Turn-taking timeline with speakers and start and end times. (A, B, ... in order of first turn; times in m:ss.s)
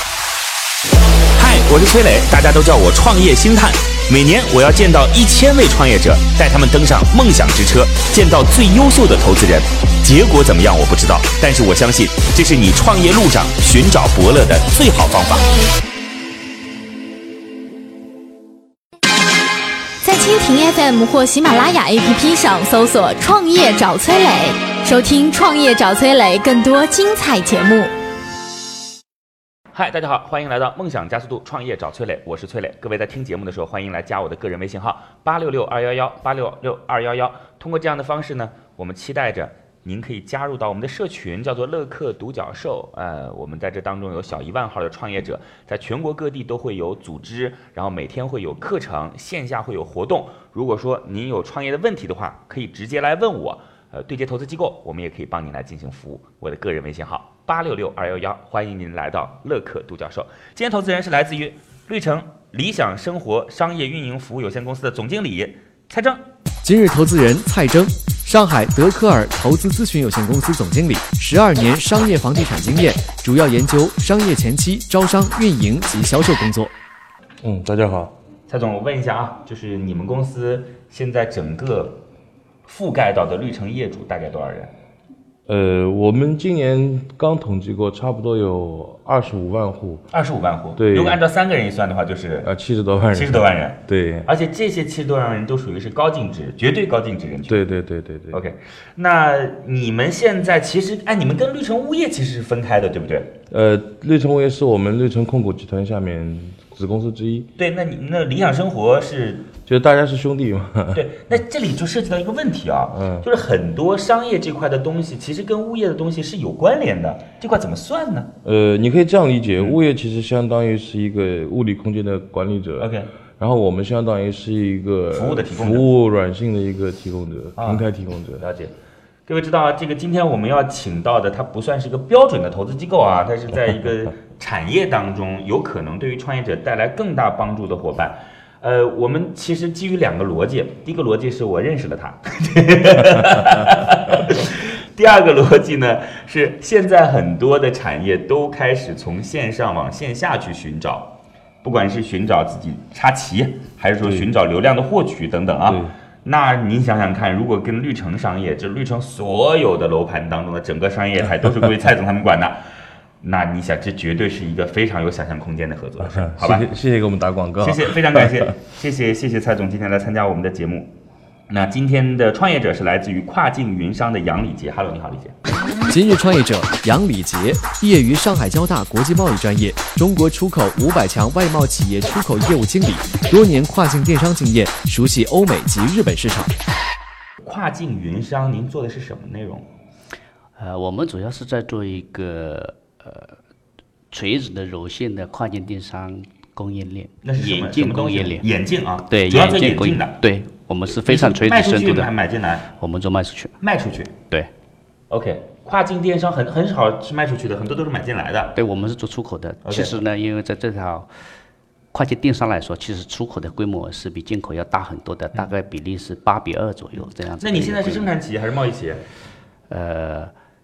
0:01.4-0:15.5 A
0:20.0-0:27.9 B
0:29.7-1:06.2 A
1:06.6-1:16.7 C
1:17.4-1:18.1 D
1:18.5-1:22.0 A
1:22.7-1:24.7 A
1:25.5-1:30.1 D
1:30.1-1:32.5 A
1:30.8-1:31.2 D
1:32.4-1:34.3 D
1:33.1-1:37.6 A
1:37.5-1:38.4 D
1:38.3-1:43.3 A
1:43.5-1:47.5 D
1:47.6-1:49.5 A
1:49.7-1:51.1 D
1:50.9-1:58.3 A
1:52.9-1:53.3 D
1:58.4-2:08.4 D
2:02.8-2:03.1 A
2:05.1-2:05.9 A
2:07.6-2:07.9 A
2:08.4-2:08.7 A
2:09.3-2:42.6 A
2:34.0-2:34.3 D
2:35.7-2:35.9 D
2:43.2-2:46.7 A
2:46.0-2:48.5 D
2:47.6-2:50.9 A
2:51.5-2:55.4 A
2:55.9-3:06.6 C
3:07.4-3:09.7 A
3:10.6-3:13.4 E
3:14.1-3:18.4 E
3:17.2-3:20.2 A
3:19.1-3:22.1 E
3:20.9-3:22.7 A
3:22.8-3:23.6 E
3:23.6-3:24.1 A
3:25.1-3:28.6 A
3:28.6-3:31.1 E
3:29.6-3:29.9 A
3:31.9-3:38.1 E
3:37.4-3:39.0 A
3:39.7-3:40.3 E